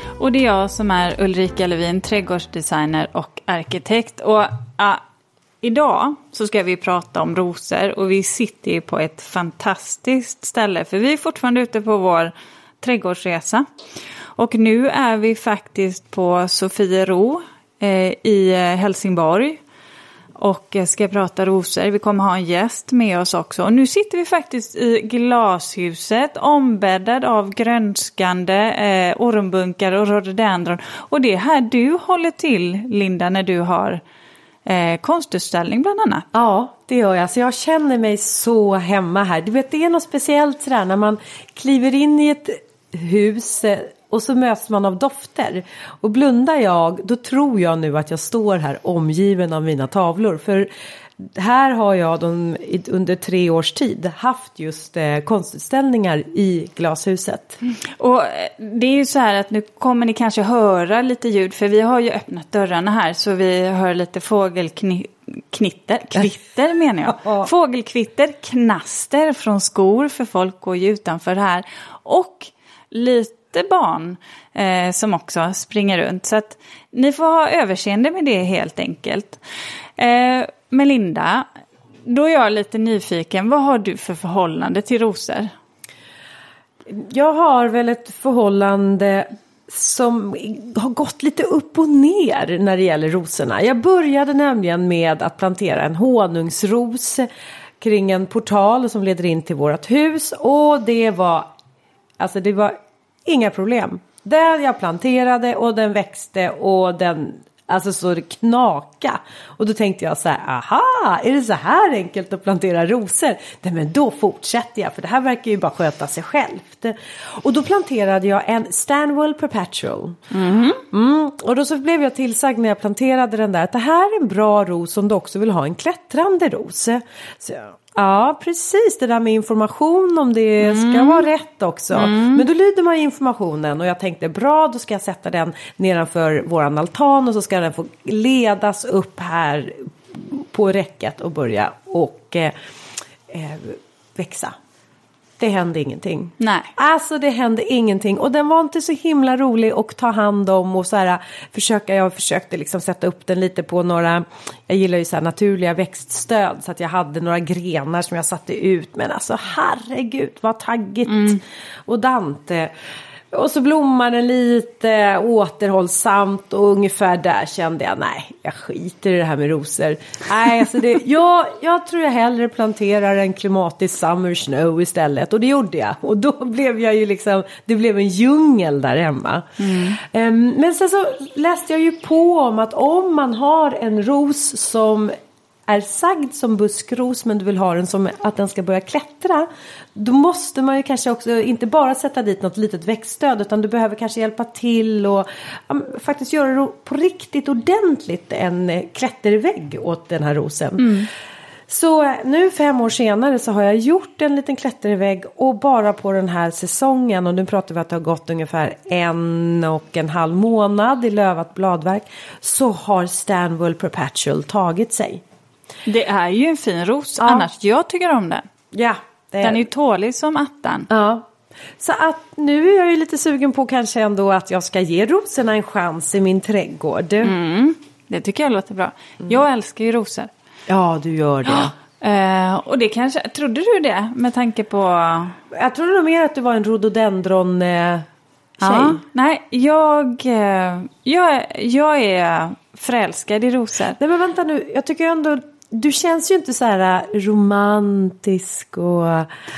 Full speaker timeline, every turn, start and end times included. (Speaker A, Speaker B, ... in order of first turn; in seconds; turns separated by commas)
Speaker A: 0.2-5.0, Speaker A: 5.6-13.6, Speaker A: 14.4-19.6, Speaker A: 20.4-34.0, Speaker A: 34.6-36.3, Speaker B: 36.3-57.6, Speaker A: 58.0-79.4, Speaker B: 67.2-67.5, Speaker A: 80.0-81.5, Speaker A: 82.0-85.5, Speaker B: 86.9-97.3, Speaker B: 97.8-101.5, Speaker B: 102.2-120.2, Speaker A: 120.3-120.8, Speaker B: 120.9-142.5, Speaker A: 130.6-131.3, Speaker A: 131.9-132.4, Speaker B: 143.2-144.5, Speaker B: 145.4-162.7, Speaker A: 146.4-146.7, Speaker A: 161.1-161.4, Speaker B: 163.3-185.1, Speaker A: 179.6-179.9, Speaker B: 185.7-201.1, Speaker A: 200.8-201.1, Speaker B: 201.7-215.2, Speaker A: 215.8-218.4, Speaker B: 217.2-217.5, Speaker B: 218.7-219.6, Speaker A: 219.4-220.9, Speaker B: 220.9-227.3, Speaker A: 227.2-230.3, Speaker B: 230.7-231.7, Speaker A: 231.5-235.4, Speaker B: 235.5-238.1, Speaker B: 238.6-239.0, Speaker A: 238.6-244.0, Speaker B: 244.0-249.3